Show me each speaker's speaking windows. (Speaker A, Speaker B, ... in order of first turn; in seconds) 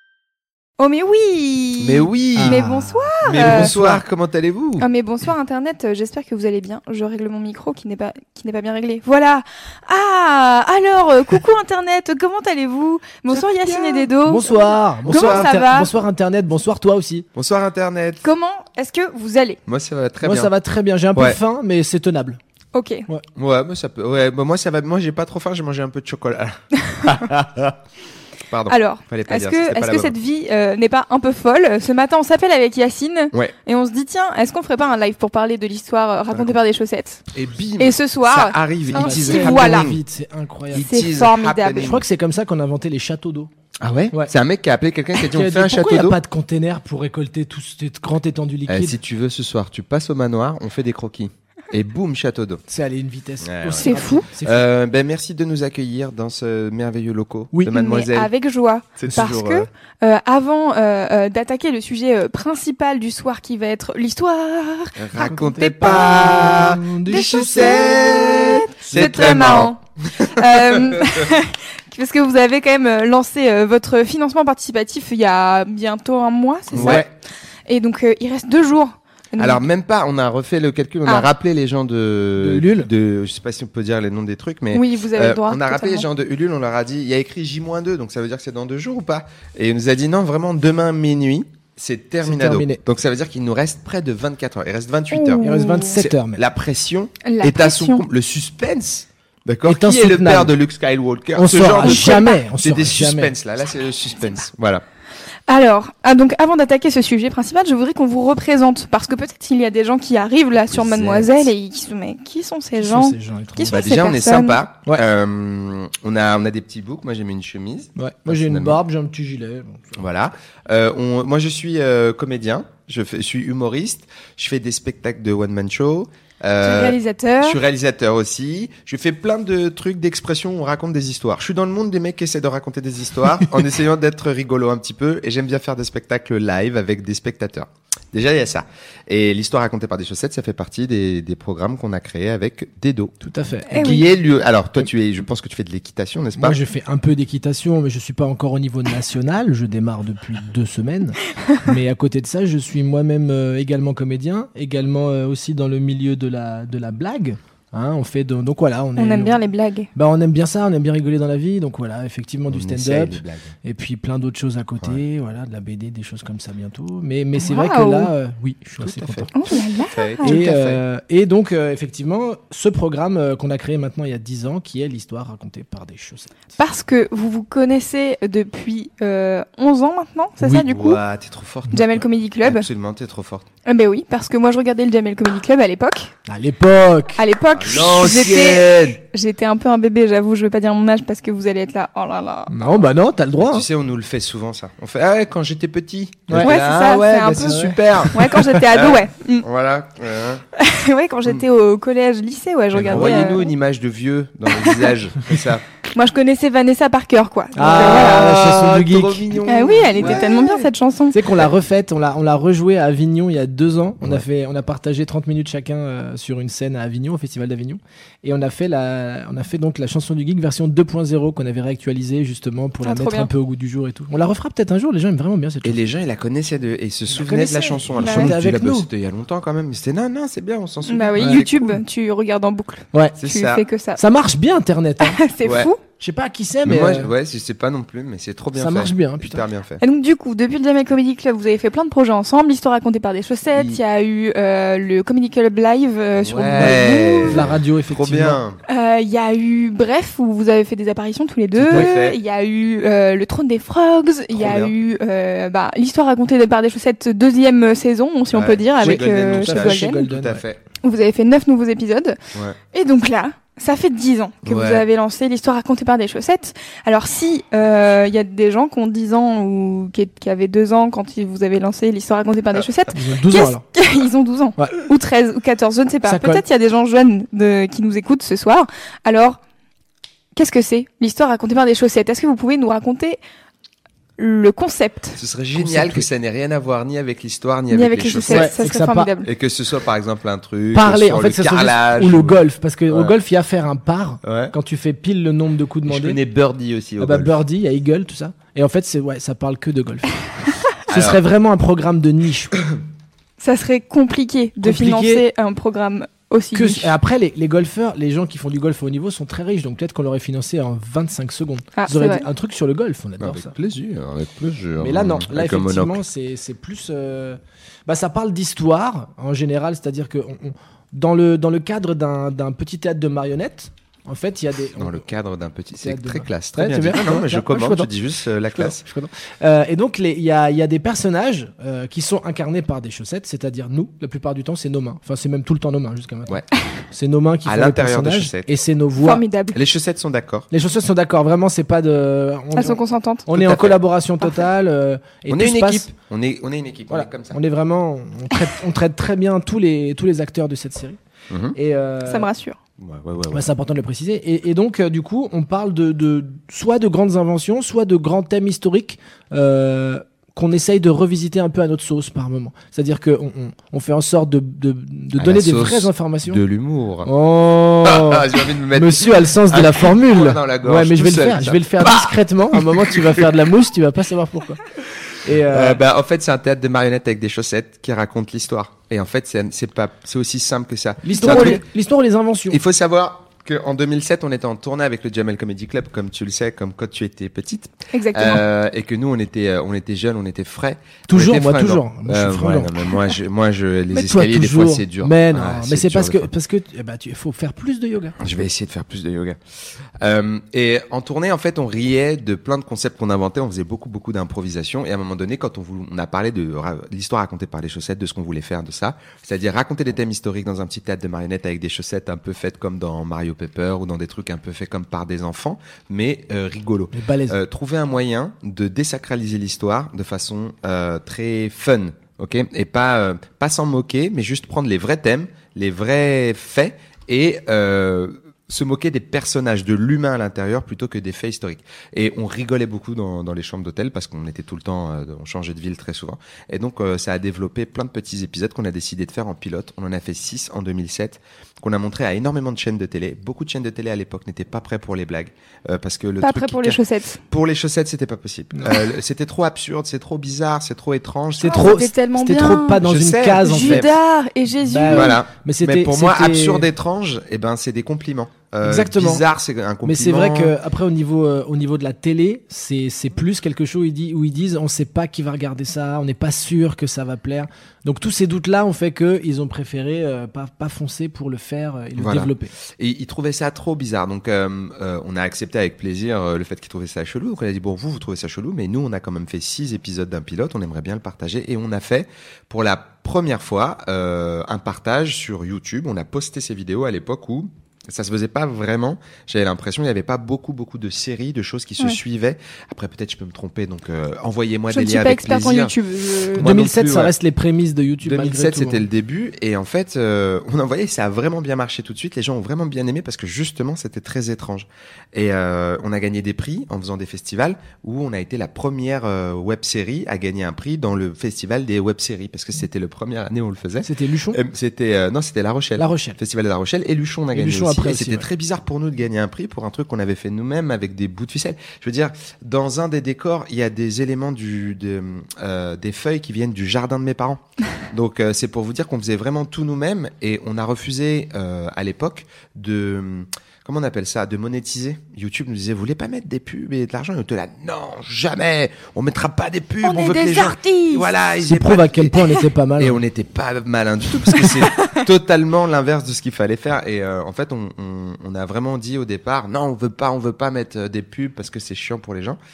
Speaker A: 0.8-3.7, 4.8-15.9, 18.2-19.6, 22.7-23.1, 26.8-27.2, 28.7-37.2, 37.8-39.9, 40.7-42.0, 53.8-54.2, 57.7-77.1, 77.7-79.6, 84.7-86.0, 95.1-95.9, 97.2-98.0, 101.7-102.3, 105.5-114.6, 126.6-127.6, 143.7-144.1, 159.0-159.9, 167.4-168.1, 169.3-170.4, 176.6-181.0, 181.7-182.7, 183.7-186.1, 187.2-192.5, 196.4-199.5, 200.5-203.5, 204.6-204.9, 205.9-208.6, 209.5-211.2, 222.8-223.3, 228.0-228.3, 230.8-234.0, 235.0-235.8, 239.8-247.5, 248.7-260.1, 260.8-262.2, 262.7-279.4, 280.4-283.2, 284.2-285.2, 287.7-289.3, 303.4-306.9, 311.8-312.2, 339.0-339.6, 342.5-343.3, 352.1-352.6, 387.9-388.4, 446.2-447.2, 451.4-452.8, 453.4-455.2, 494.7-496.5, 539.8-541.1, 544.3-545.0
Speaker B: 1.8-2.6, 3.2-4.8, 15.0-15.5, 17.3-18.2, 19.6-20.5, 23.3-27.8, 28.5-30.1, 36.3-36.6, 37.3-40.0, 40.7-42.0, 43.8-46.2, 48.7-52.6, 53.4-58.3, 59.0-59.7, 65.0-71.3, 76.7-77.0, 79.4-104.8, 110.7-111.4, 113.7-118.8, 119.9-143.1, 143.7-146.6, 162.5-163.5, 168.8-170.8, 180.5-183.4, 187.5-189.0, 193.4-200.4, 202.8-205.6, 207.6-210.7, 225.6-231.8, 233.2-233.6, 235.4-235.7, 236.6-239.8, 243.5-243.8, 246.2-248.6, 251.7-252.2, 254.3-254.7, 258.3-260.6, 264.4-264.8, 285.1-288.5, 289.2-293.1, 294.2-294.5, 295.9-297.4, 300.9-301.2, 313.2-316.0, 324.8-328.8, 337.4-338.6, 339.5-340.5, 343.3-343.8, 345.3-347.4, 351.3-351.6, 352.8-353.4, 365.1-367.1, 367.8-373.4, 375.3-381.6, 382.5-396.3, 398.2-399.4, 400.0-451.8, 452.8-453.9, 454.9-460.5, 472.0-495.7, 496.3-497.1, 498.0-542.1, 542.8-552.4
Speaker C: 2.4-4.0, 13.3-17.3, 20.2-22.4, 38.9-40.9, 41.8-43.5, 45.3-49.0, 52.7-54.6, 65.2-69.1, 76.8-77.1, 82.4-82.9, 92.2-92.8, 95.4-96.4, 99.7-100.5, 101.3-103.3, 112.8-113.8, 118.0-119.9, 143.2-143.9, 146.4-159.4, 159.9-169.4, 170.2-176.4, 186.3-187.2, 192.5-193.6, 196.3-196.5, 197.3-198.4, 202.8-203.1, 207.6-209.3, 210.0-210.2, 211.1-225.8, 227.1-228.9, 231.2-231.4, 234.0-235.2, 236.0-237.1, 238.6-239.4, 246.5-248.4, 251.6-251.9, 258.8-260.4, 272.9-273.6, 276.0-276.4, 285.5-286.0, 288.3-289.1, 290.7-296.2, 297.0-300.2, 300.9-302.6, 304.6-305.2, 306.5-313.5, 314.8-325.1, 325.8-327.9, 328.5-336.4, 336.9-339.2, 340.5-345.9, 346.9-351.0, 351.5-352.3, 353.3-366.4, 367.1-374.6, 375.2-375.8, 381.0-382.6, 391.1-393.0, 393.9-398.2, 416.9-417.4, 451.4-453.9, 454.6-456.6, 458.6-459.2, 459.8-472.5, 496.4-498.8, 513.8-514.4, 515.8-516.2, 517.3-518.2, 541.4-543.0